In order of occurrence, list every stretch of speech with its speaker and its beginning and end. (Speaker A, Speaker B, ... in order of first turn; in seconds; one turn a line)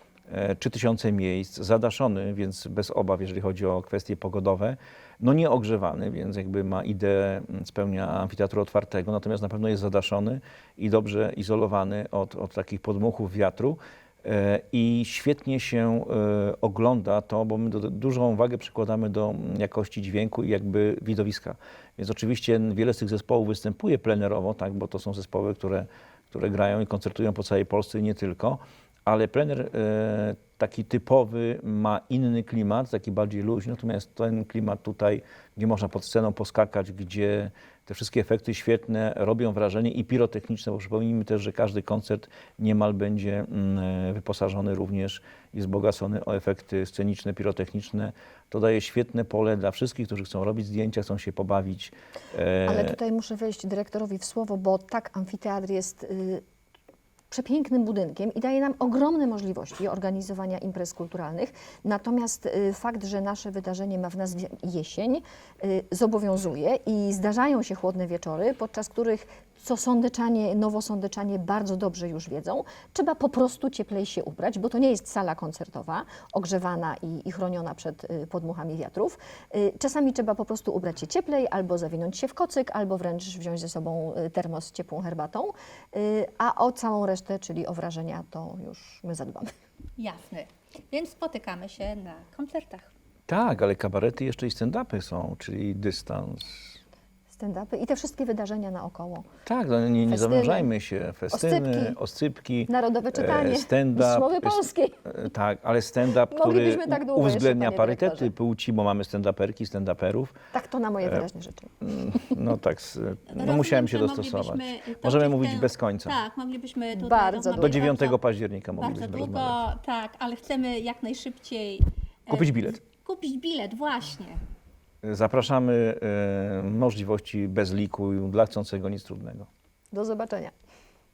Speaker A: 0.3-53.0
Speaker B: 52.7-56.4
Speaker B: 57.3-89.5
Speaker C: 90.0-92.9
Speaker A: 93.3-96.8
Speaker B: 97.3-99.3
Speaker A: 99.5-110.3
Speaker B: 100.1-100.7
Speaker B: 101.3-102.0
Speaker B: 102.7-105.0
Speaker B: 106.3-108.3
Speaker B: 110.5-112.3
Speaker A: 111.8-116.2
Speaker C: 113.3-118.2
Speaker B: 116.9-117.8
Speaker A: 117.5-119.6
Speaker C: 118.8-124.4
Speaker A: 122.3-122.8
Speaker A: 125.0-129.5
Speaker B: 129.9-130.5